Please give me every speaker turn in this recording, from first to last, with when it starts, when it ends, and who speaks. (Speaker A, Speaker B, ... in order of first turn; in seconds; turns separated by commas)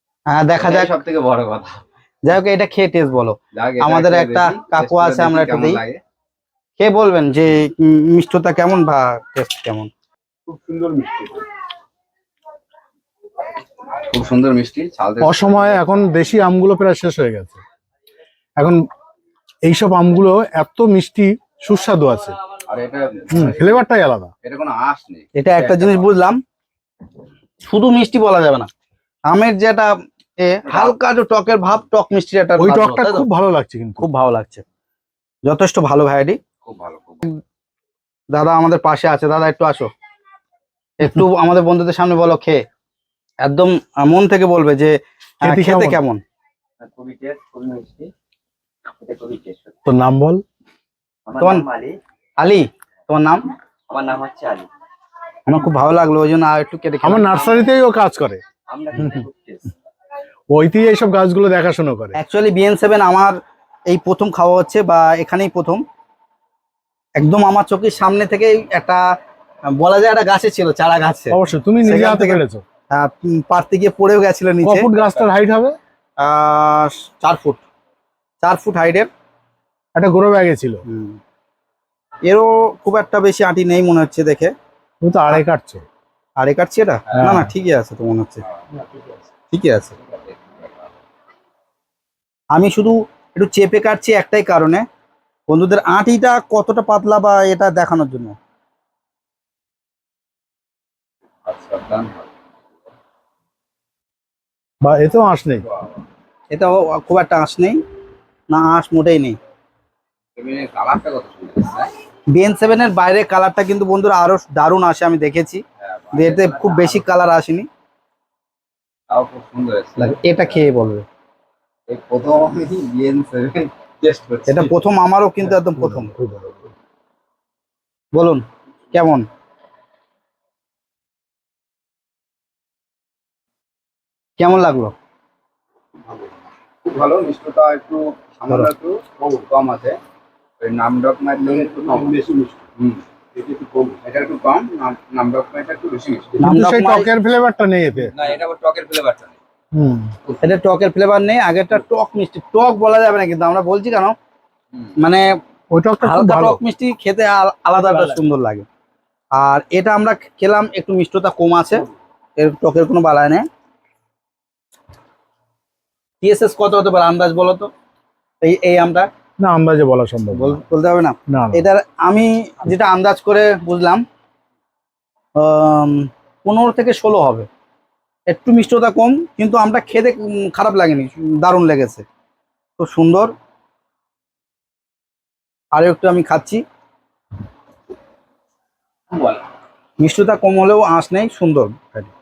Speaker A: 0.3-1.0, Speaker B: 0.6-1.8, Speaker A: 2.2-5.8, Speaker B: 3.5-6.0, Speaker A: 6.8-9.9, Speaker B: 10.5-11.5, Speaker B: 13.8-15.9, Speaker C: 15.2-17.6, Speaker C: 19.6-22.4, Speaker B: 22.7-23.8, Speaker C: 23.3-24.3, Speaker B: 24.4-26.1, Speaker A: 25.4-26.4, Speaker A: 27.6-28.7, Speaker A: 29.3-33.3, Speaker B: 30.7-30.9, Speaker C: 32.6-34.1, Speaker A: 34.0-34.6, Speaker A: 35.5-36.4, Speaker B: 36.6-37.2, Speaker A: 38.3-39.9, Speaker A: 41.0-42.6, Speaker A: 43.4-46.2, Speaker C: 45.4-46.0, Speaker B: 46.8-48.1, Speaker B: 49.1-49.6, Speaker C: 49.9-50.4, Speaker A: 51.4-51.7, Speaker A: 52.4-53.4, Speaker B: 53.9-54.3, Speaker A: 55.5-57.6, Speaker C: 57.0-58.4, Speaker C: 59.0-59.3, Speaker C: 60.5-62.2, Speaker A: 62.2-63.4, Speaker A: 63.9-65.8, Speaker A: 67.2-69.0, Speaker A: 69.7-74.9, Speaker C: 71.3-72.6, Speaker C: 74.6-75.8, Speaker A: 76.2-77.6, Speaker A: 78.4-79.1, Speaker C: 80.0-80.8, Speaker A: 80.9-81.2, Speaker A: 82.3-84.5, Speaker C: 85.0-85.8, Speaker A: 86.4-88.4, Speaker C: 87.1-87.5, Speaker B: 88.6-89.2, Speaker A: 89.5-89.9, Speaker B: 90.1-90.9, Speaker A: 92.5-94.8, Speaker A: 95.5-98.4, Speaker B: 101.5-102.3, Speaker C: 104.8-105.7, Speaker A: 106.5-107.8, Speaker A: 108.5-109.4, Speaker B: 110.4-111.9, Speaker A: 112.3-115.6, Speaker B: 115.8-117.0, Speaker A: 116.1-117.7, Speaker B: 119.1-120.4, Speaker A: 120.0-121.0, Speaker B: 121.9-124.8, Speaker A: 124.5-126.1, Speaker C: 125.6-126.7, Speaker A: 128.1-129.3, Speaker A: 134.4-134.9, Speaker B: 136.8-140.0, Speaker B: 140.6-146.5, Speaker C: 146.4-148.1, Speaker A: 146.4-147.1, Speaker B: 148.1-149.4, Speaker C: 149.7-150.1, Speaker A: 150.4-154.2, Speaker A: 155.0-155.4, Speaker C: 155.7-156.6, Speaker A: 156.0-158.7, Speaker A: 159.4-161.8, Speaker A: 162.4-163.5, Speaker A: 166.2-167.7, Speaker A: 168.4-169.1, Speaker C: 169.4-170.6, Speaker A: 170.3-174.0, Speaker C: 171.3-171.7, Speaker A: 175.4-177.5, Speaker A: 178.3-182.0, Speaker A: 182.8-183.3, Speaker A: 185.7-186.6, Speaker B: 189.1-189.4, Speaker A: 190.0-192.1